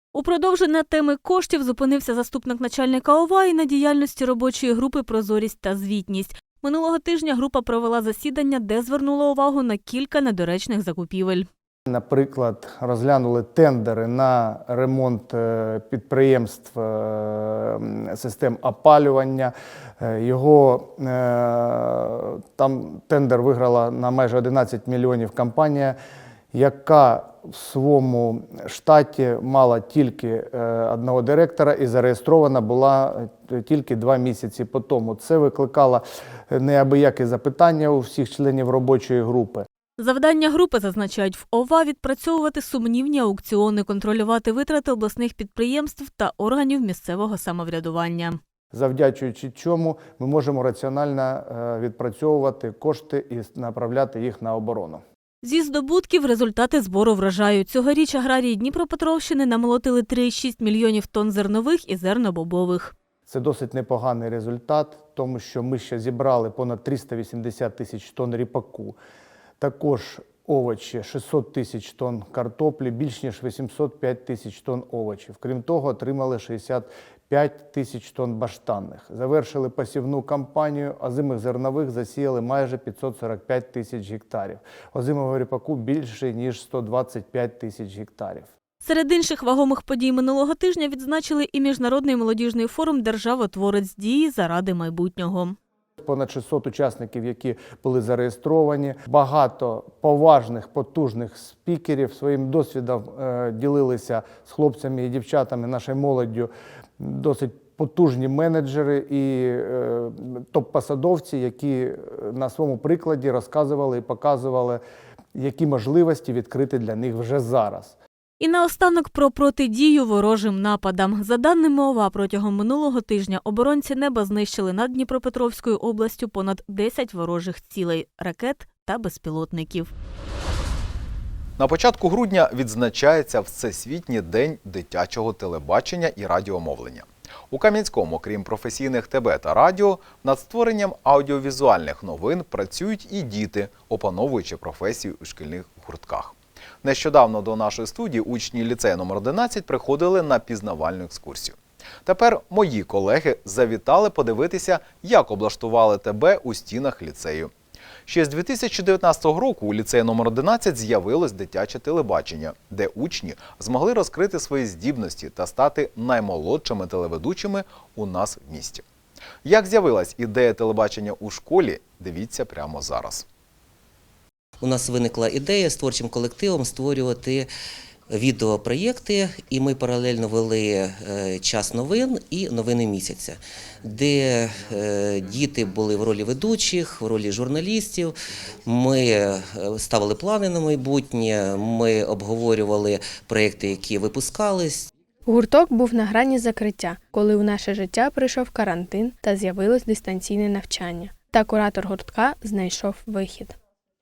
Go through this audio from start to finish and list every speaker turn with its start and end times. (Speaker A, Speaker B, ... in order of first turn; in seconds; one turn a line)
Speaker A: 0.1-11.5
Speaker B: 11.9-25.9
Speaker B: 26.5-39.7
Speaker A: 40.0-48.4
Speaker B: 48.7-55.0
Speaker A: 55.4-62.9
Speaker B: 63.3-69.0
Speaker B: 69.6-88.5
Speaker A: 88.8-95.6
Speaker B: 96.0-114.8
Speaker B: 115.3-118.0
Speaker A: 118.4-129.9
Speaker C: 131.6-157.5
Speaker C: 158.1-168.8
Speaker C: 169.4-173.3
Speaker D: 174.6-177.5
Speaker D: 178.1-188.2
Speaker D: 188.7-194.9
Speaker E: 195.3-203.5